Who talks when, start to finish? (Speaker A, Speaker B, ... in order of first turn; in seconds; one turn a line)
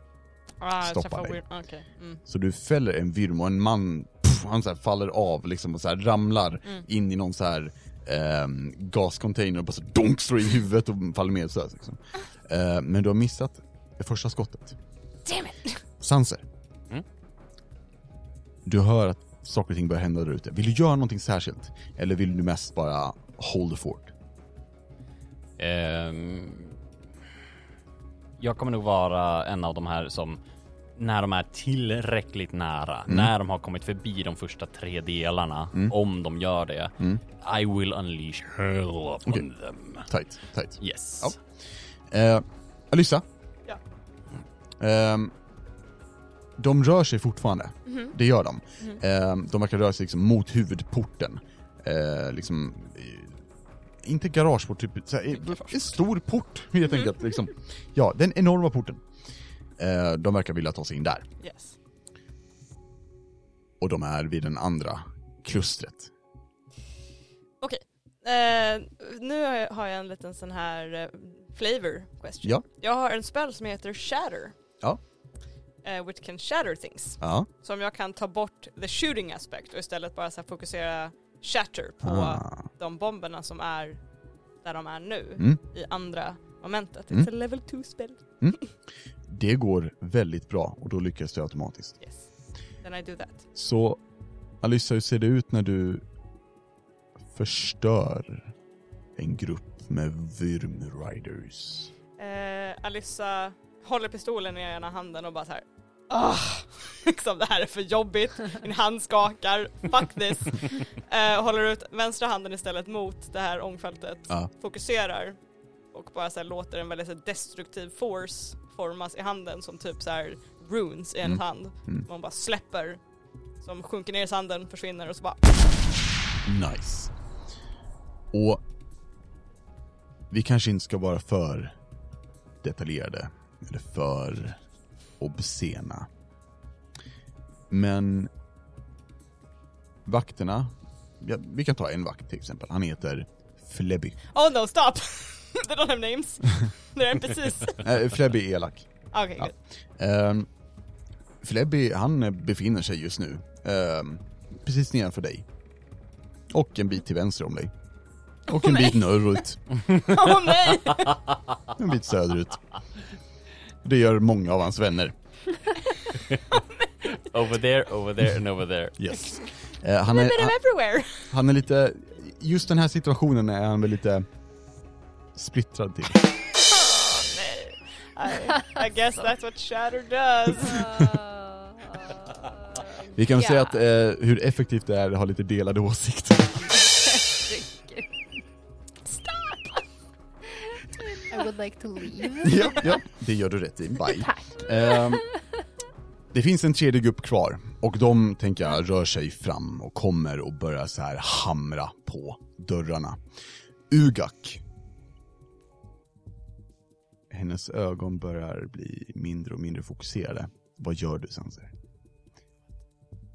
Speaker A: 0.6-2.2
Speaker B: 0.8-1.4
Speaker B: 2.2-14.8
Speaker A: 15.2-15.8
Speaker B: 16.0-16.4
Speaker B: 18.6-24.1
Speaker C: 25.6-26.8
Speaker C: 28.4-30.4
Speaker C: 30.9-40.1
Speaker B: 40.1-41.4
Speaker C: 40.8-41.4
Speaker B: 42.1-43.2
Speaker B: 44.8-45.3
Speaker B: 46.6-53.4
Speaker A: 47.9-48.1
Speaker B: 54.0-59.0
Speaker A: 56.9-57.1
Speaker B: 59.8-61.3
Speaker A: 61.4-61.8
Speaker B: 63.8-66.1
Speaker A: 67.6-74.5
Speaker A: 75.8-84.0
Speaker B: 77.2-77.5
Speaker B: 82.0-82.7
Speaker A: 84.6-88.6
Speaker B: 89.3-92.0
Speaker A: 92.0-92.3
Speaker A: 92.8-93.5
Speaker B: 93.5-94.0
Speaker B: 94.6-96.0
Speaker B: 97.3-98.5
Speaker B: 99.2-101.9
Speaker A: 102.2-115.4
Speaker A: 115.9-123.0
Speaker B: 121.2-122.1
Speaker A: 123.6-125.5
Speaker B: 126.4-127.1
Speaker B: 128.3-128.6
Speaker B: 130.3-131.8
Speaker B: 132.6-134.6
Speaker B: 135.2-136.1
Speaker B: 137.7-138.3
Speaker B: 140.0-144.2
Speaker A: 144.3-147.9
Speaker B: 147.8-150.5
Speaker A: 149.1-149.5
Speaker B: 151.4-155.4
Speaker B: 156.5-157.7
Speaker B: 158.5-159.8
Speaker A: 158.5-159.0
Speaker A: 159.9-161.2
Speaker B: 161.7-162.6
Speaker B: 163.8-165.1
Speaker C: 167.1-169.1
Speaker B: 169.0-170.6
Speaker A: 170.1-171.3
Speaker B: 171.3-174.2
Speaker B: 175.3-176.3
Speaker A: 176.6-181.1
Speaker D: 180.7-183.7
Speaker B: 183.1-186.8
Speaker D: 187.2-188.1
Speaker E: 191.3-192.9
Speaker B: 192.4-195.3
Speaker E: 194.1-195.1
Speaker B: 196.3-203.2
Speaker B: 203.9-204.6
Speaker B: 207.3-211.7